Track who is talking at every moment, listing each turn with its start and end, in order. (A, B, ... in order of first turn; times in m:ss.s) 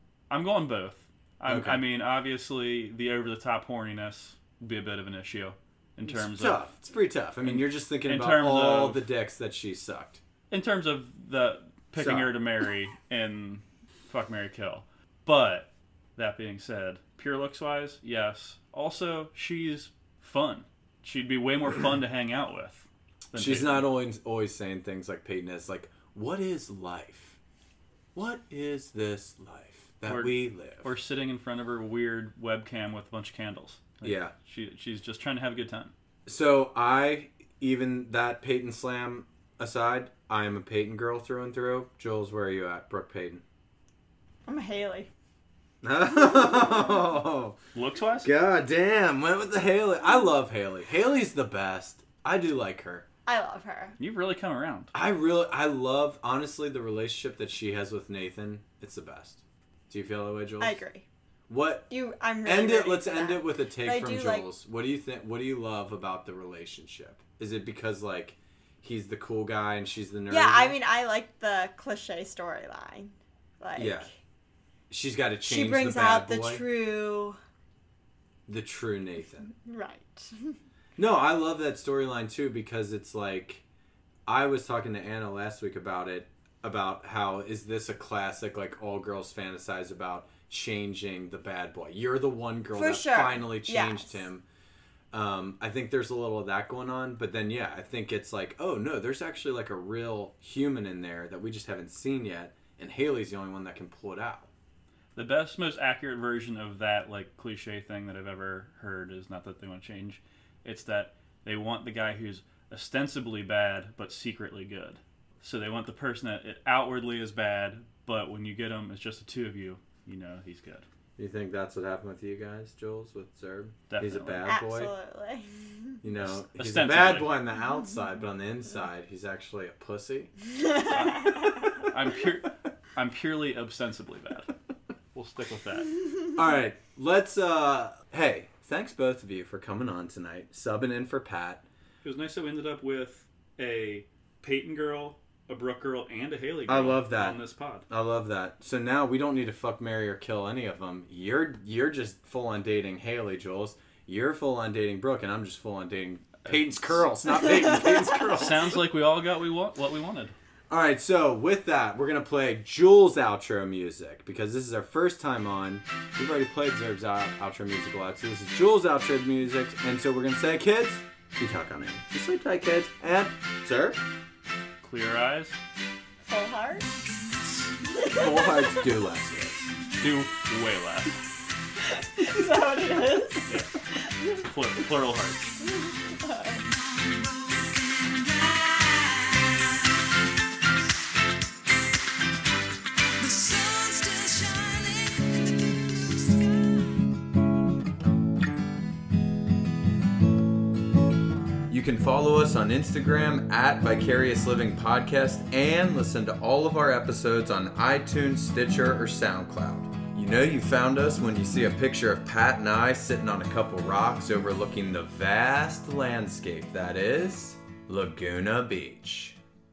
0:00.3-0:06.7 A
0:01.5-0:01.8 B
0:06.0-0:10.2 B
0:07.4-0:09.1 A
0:10.5-0:23.9 A
0:12.0-0:12.3 B
0:23.3-0:27.4 B
0:28.1-0:30.9 B
0:30.0-0:35.9 A
0:34.0-0:34.3 B
0:36.3-0:43.4 B
0:44.5-0:45.1 C
0:45.8-0:47.6 B
0:47.7-0:48.3 A
0:48.2-0:53.0 B
0:53.2-0:54.0 C
0:54.0-0:54.9 A
0:54.9-1:00.8 B
1:00.6-1:01.0 C
1:01.5-1:01.9 B
1:01.9-1:04.5 C
1:02.4-1:10.7 B
1:10.3-1:14.1 C
1:13.8-1:14.1 B
1:14.9-1:16.6 B
1:15.4-1:17.4 C
1:18.5-1:19.5 B
1:19.5-1:20.6 C
1:21.0-1:23.6 B
1:24.3-1:34.4 B
1:32.7-1:34.2 C
1:35.1-1:44.5 B
1:45.1-2:00.9 A
2:01.2-2:04.9 B
2:03.9-2:04.4 A
2:04.4-2:06.0 C
2:06.0-2:10.3 B
2:06.2-2:07.4 A
2:10.6-2:11.7 C
2:10.8-2:14.5 A
2:15.1-2:15.9 A
2:16.4-2:21.6 B
2:22.0-2:27.9 A
2:26.7-2:38.8 B
2:36.4-2:37.1 A
2:38.1-2:40.4 A
2:40.7-2:54.0 B
2:54.8-2:55.6 A
2:56.3-2:56.9 C
2:57.9-2:58.8 C
2:58.0-2:59.6 B
3:00.0-3:01.2 A
3:01.8-3:04.4 C
3:03.5-3:03.7 A
3:04.4-3:05.6 A
3:05.6-3:06.6 C
3:21.7-3:39.4 B